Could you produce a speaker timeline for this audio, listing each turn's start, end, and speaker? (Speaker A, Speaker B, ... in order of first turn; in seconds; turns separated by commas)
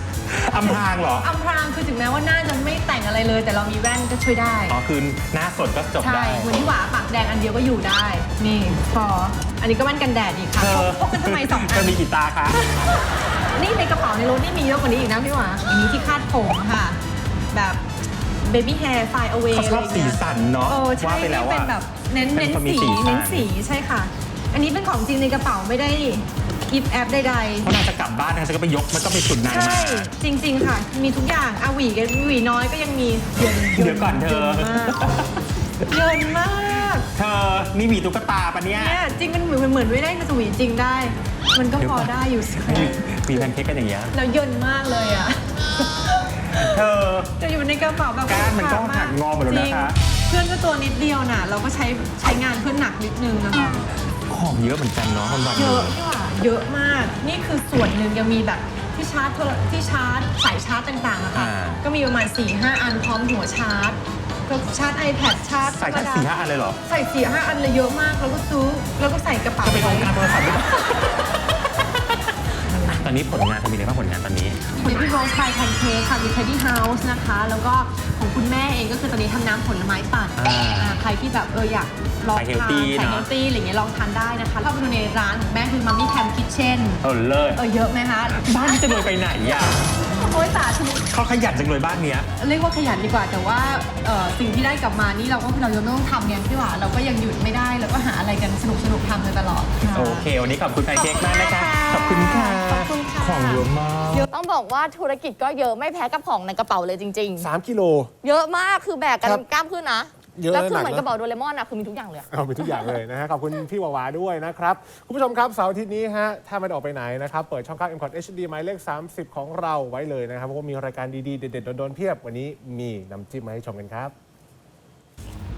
Speaker A: 0.3-1.3, Speaker B: 0.6-4.8, Speaker A: 4.7-6.7, Speaker B: 6.0-12.9, Speaker A: 10.5-12.6, Speaker B: 13.5-17.0, Speaker B: 17.5-17.8, Speaker B: 18.4-27.8, Speaker A: 19.5-21.7, Speaker A: 22.3-23.5, Speaker A: 27.6-30.1, Speaker B: 29.4-35.1, Speaker A: 33.4-35.3, Speaker B: 35.9-37.0, Speaker A: 37.1-39.0, Speaker B: 38.7-43.4, Speaker A: 41.8-44.1, Speaker B: 44.1-46.7, Speaker A: 46.6-47.3, Speaker B: 47.4-53.9, Speaker A: 48.3-50.0, Speaker A: 54.3-56.0, Speaker B: 55.3-66.3, Speaker A: 61.3-61.8, Speaker A: 65.6-66.8, Speaker B: 66.8-70.4, Speaker A: 69.6-71.2, Speaker B: 72.7-73.1, Speaker A: 72.9-75.1, Speaker B: 74.8-89.1, Speaker A: 80.4-81.0, Speaker A: 82.3-83.3, Speaker A: 87.0-87.6, Speaker A: 88.4-89.8, Speaker B: 90.1-91.0, Speaker A: 91.1-92.3, Speaker B: 92.4-100.3, Speaker A: 99.9-104.2, Speaker B: 100.9-104.3, Speaker C: 104.3-107.5, Speaker D: 107.4-108.1, Speaker C: 108.2-113.0, Speaker D: 110.3-111.1, Speaker D: 112.3-124.1